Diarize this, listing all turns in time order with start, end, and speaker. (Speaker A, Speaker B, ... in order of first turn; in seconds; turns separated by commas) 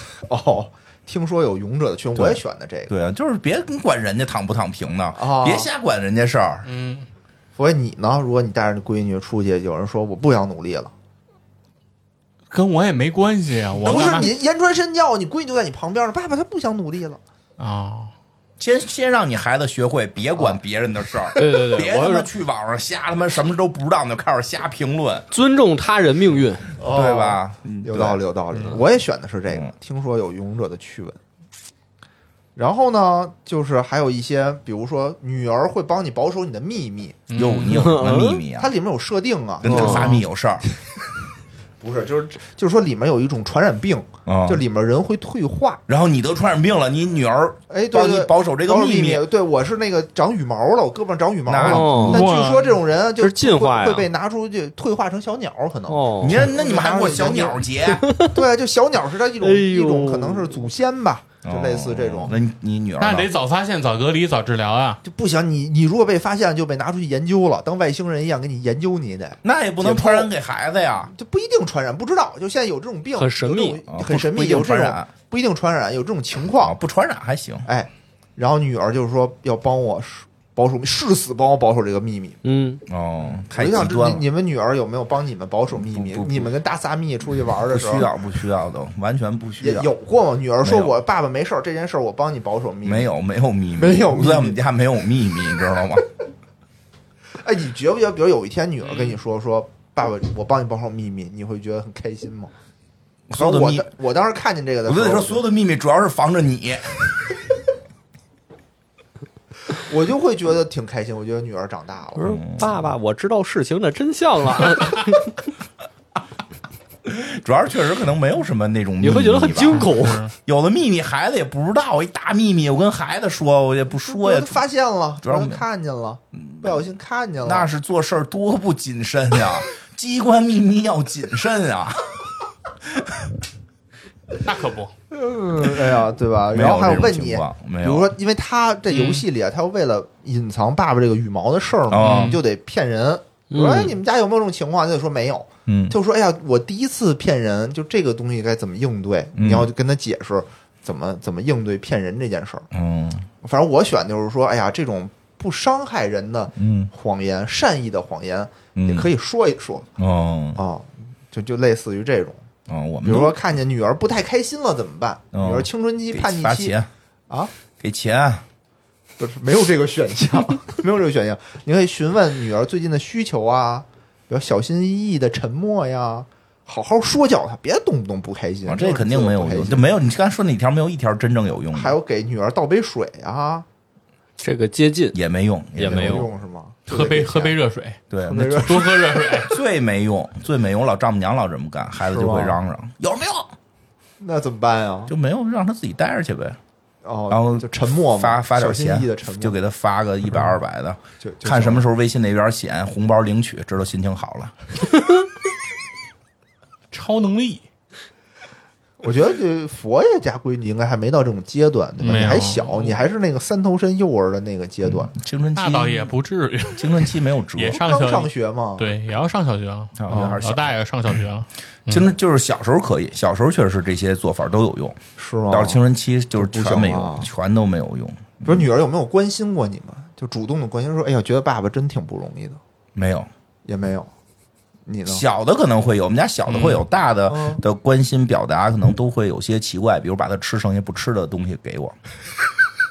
Speaker A: 0.2-2.9, Speaker B: 2.1-6.7, Speaker A: 5.1-5.7, Speaker C: 6.7-7.1, Speaker A: 7.5-10.9, Speaker C: 12.5-14.3, Speaker A: 13.8-17.2, Speaker B: 13.9-14.2, Speaker C: 17.6-18.1, Speaker B: 18.6-25.2, Speaker D: 21.4-22.3, Speaker D: 25.3-26.7, Speaker A: 26.8-31.2, Speaker B: 26.9-28.2, Speaker A: 32.5-37.2, Speaker C: 37.3-37.9, Speaker B: 37.3-38.7, Speaker D: 37.7-38.4, Speaker A: 38.6-40.2, Speaker B: 39.6-40.6, Speaker D: 39.7-40.0, Speaker C: 39.8-40.2, Speaker A: 41.8-45.8, Speaker B: 44.2-44.6, Speaker B: 45.9-49.2, Speaker A: 47.7-57.6, Speaker B: 51.5-52.2, Speaker D: 51.6-52.3, Speaker C: 52.0-52.8, Speaker D: 53.2-54.1, Speaker D: 55.9-56.5, Speaker B: 56.2-58.0, Speaker D: 57.9-58.3, Speaker A: 58.3-62.3, Speaker D: 59.4-60.6, Speaker B: 61.4-63.3, Speaker C: 63.0-65.0, Speaker A: 65.0-70.3, Speaker B: 69.4-71.1, Speaker A: 71.1-76.8, Speaker D: 73.2-73.8, Speaker B: 73.9-75.1, Speaker B: 76.6-77.7, Speaker A: 77.7-82.4, Speaker D: 82.4-82.8, Speaker B: 82.9-84.2, Speaker A: 83.2-88.1, Speaker B: 85.7-86.5, Speaker B: 87.7-89.9, Speaker A: 89.6-93.1, Speaker B: 90.6-90.9, Speaker B: 92.8-96.0, Speaker A: 93.8-94.6, Speaker A: 97.4-102.5, Speaker B: 103.3-103.9, Speaker A: 103.3-105.4, Speaker B: 104.9-107.0, Speaker A: 109.8-112.3, Speaker D: 112.2-115.2, Speaker B: 112.2-112.7, Speaker B: 117.0-119.9, Speaker D: 119.0-120.3, Speaker C: 119.7-120.3, Speaker B: 120.4-124.6, Speaker A: 124.1-127.7, Speaker B: 125.2-125.6, Speaker B: 126.3-126.9, Speaker B: 127.4-132.2, Speaker B: 132.9-133.3, Speaker C: 134.4-134.9, Speaker A: 135.1-152.7, Speaker B: 136.5-138.1, Speaker C: 138.9-139.2, Speaker B: 141.9-142.4, Speaker C: 142.0-142.4, Speaker D: 143.5-143.9, Speaker B: 145.7-145.9, Speaker B: 149.4-149.7, Speaker B: 152.7-153.3, Speaker A: 153.4-159.9, Speaker B: 156.6-156.9, Speaker B: 158.7-159.1, Speaker B: 160.0-160.6, Speaker A: 160.5-162.4, Speaker B: 162.7-163.4, Speaker A: 163.0-166.8, Speaker B: 165.3-166.9, Speaker B: 167.8-168.4, Speaker A: 169.2-179.8, Speaker B: 178.6-182.0, Speaker A: 181.7-183.7, Speaker D: 184.4-185.2, Speaker B: 185.1-186.3, Speaker D: 185.8-186.3, Speaker A: 185.8-187.6, Speaker C: 186.9-189.5, Speaker B: 188.1-188.9, Speaker A: 188.2-189.4, Speaker B: 189.4-193.6, Speaker A: 192.1-192.6, Speaker A: 194.2-195.1, Speaker B: 195.1-196.6, Speaker A: 197.0-199.6, Speaker B: 197.3-204.5, Speaker A: 201.2-201.9, Speaker C: 206.9-207.6, Speaker A: 209.0-215.1, Speaker C: 212.0-213.0, Speaker B: 215.1-216.1, Speaker C: 215.5-222.1, Speaker B: 216.7-217.8, Speaker A: 217.7-218.9, Speaker B: 220.0-220.7, Speaker A: 220.1-220.4, Speaker B: 221.9-228.7, Speaker A: 225.2-225.8, Speaker A: 226.3-227.3, Speaker A: 228.4-232.6, Speaker B: 232.9-233.3, Speaker A: 233.7-234.1, Speaker A: 234.9-235.2, Speaker B: 235.1-241.9, Speaker C: 236.5-236.8, Speaker A: 237.3-237.6